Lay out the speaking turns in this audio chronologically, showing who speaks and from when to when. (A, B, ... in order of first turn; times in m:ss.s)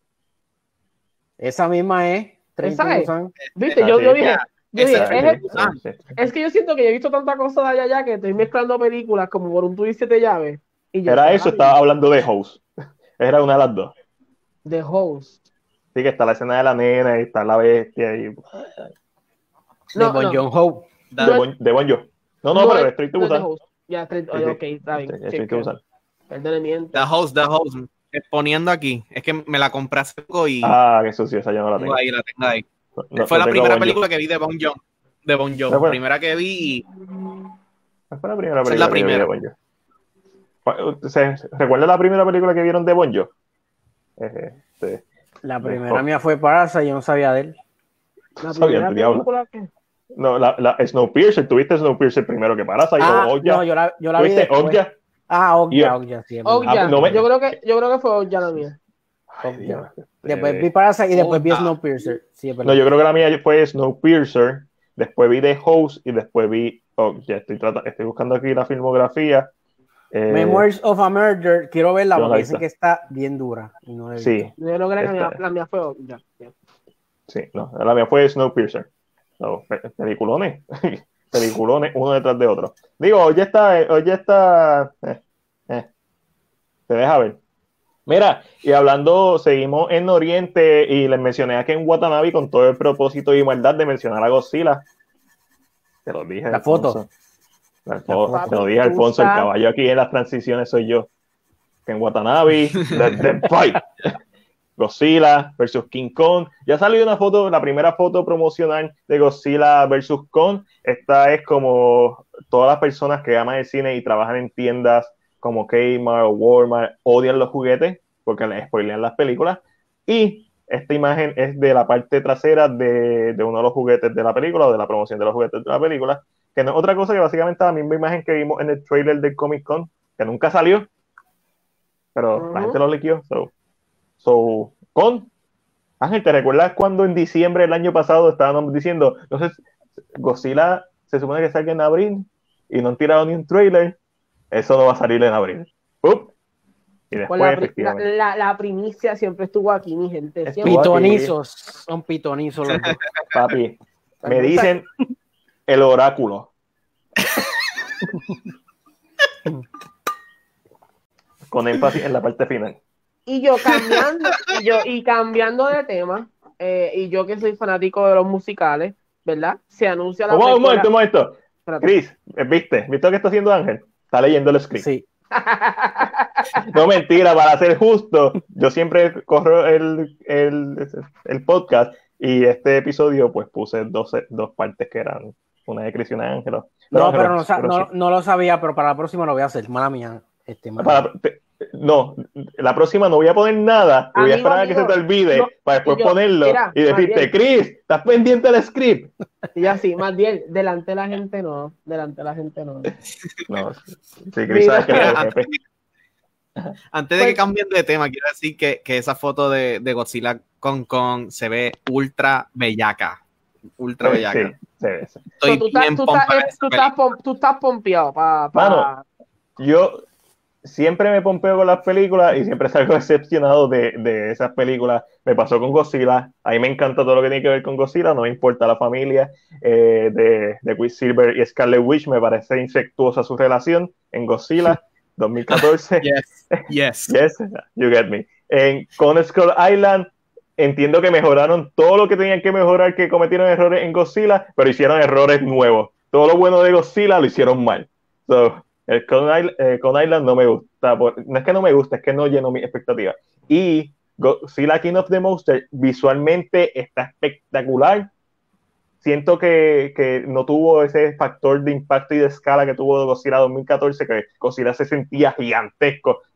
0:01.4-0:03.3 A
0:02.6-0:05.4 B
0:03.4-0:05.8 C
0:03.8-0:04.2 D
0:04.9-0:06.2 D
0:06.2-0:11.8 B
0:11.1-0:12.6 D
0:13.2-0:13.9 D
0:14.6-0:15.4 B
0:15.9-0:18.9 D
0:19.9-0:20.8 A
0:20.0-0:20.4 B
0:21.1-0:21.4 C
0:21.2-0:21.4 B
0:21.2-0:23.5 D
0:22.5-0:25.7 B
0:24.3-0:25.8 D
0:26.3-0:27.1 B
0:26.9-0:30.8 C
0:30.6-0:32.0 D
0:31.8-0:32.6 C
0:33.0-0:34.0 D
0:33.2-0:36.8 C
0:35.7-0:36.0 D
0:38.1-0:39.5 D
0:38.6-0:39.3 C
0:40.6-0:43.3 D
0:44.2-0:45.0 D
0:45.4-0:47.6 A
0:45.6-0:46.0 D
0:48.4-0:49.7 B
0:48.4-0:49.3 D
0:50.2-0:53.6 D
0:53.0-0:57.2 A
0:54.2-0:54.9 D
0:55.7-0:56.0 D
0:56.4-0:58.8 B
0:56.6-0:57.3 D
0:59.3-1:01.4 D
0:59.4-1:02.8 A
1:01.4-1:01.7 C
1:02.6-1:09.5 D
1:10.1-1:10.7 D
1:10.3-1:14.5 A
1:12.1-1:12.6 D
1:14.2-1:15.4 D
1:14.6-1:16.5 B
1:17.3-1:25.9 D
1:26.9-1:27.4 D
1:28.1-1:34.8 D
1:36.0-1:37.1 D
1:36.5-1:37.0 A
1:37.8-1:41.1 D
1:38.1-1:38.6 A
1:38.3-1:39.5 B
1:41.9-1:44.1 D
1:44.8-2:10.9 D
2:12.1-2:13.5 D
2:12.4-2:12.8 B
2:14.2-2:15.3 D
2:16.0-2:19.6 D
2:20.1-2:24.0 D
2:24.5-2:26.3 D
2:27.1-2:28.0 D
2:27.3-2:31.2 B
2:30.4-2:31.3 D
2:30.6-2:33.0 A
2:33.3-2:34.8 D
2:34.2-2:34.7 B
2:35.7-2:36.5 D
2:41.5-2:42.8 D
2:43.2-2:50.9 B
2:43.7-2:44.4 C
2:50.3-2:54.8 D
2:51.6-2:51.9 B
2:54.8-2:55.0 A
2:55.3-2:56.7 B
2:56.7-3:07.9 D
3:06.9-3:11.1 A
3:10.8-3:19.1 D
3:14.1-3:17.3 B
3:19.5-3:22.9 B
3:23.5-3:25.5 D
3:24.5-3:25.1 B
3:25.0-3:25.6 C
3:26.9-3:33.2 C
3:33.8-3:34.5 C
3:34.0-3:35.2 D
3:35.4-3:36.9 C
3:35.4-3:39.0 B
3:38.5-3:38.9 D
3:39.6-3:40.0 D
3:40.6-4:18.1 D
3:55.5-3:57.1 C
4:19.0-4:26.2 D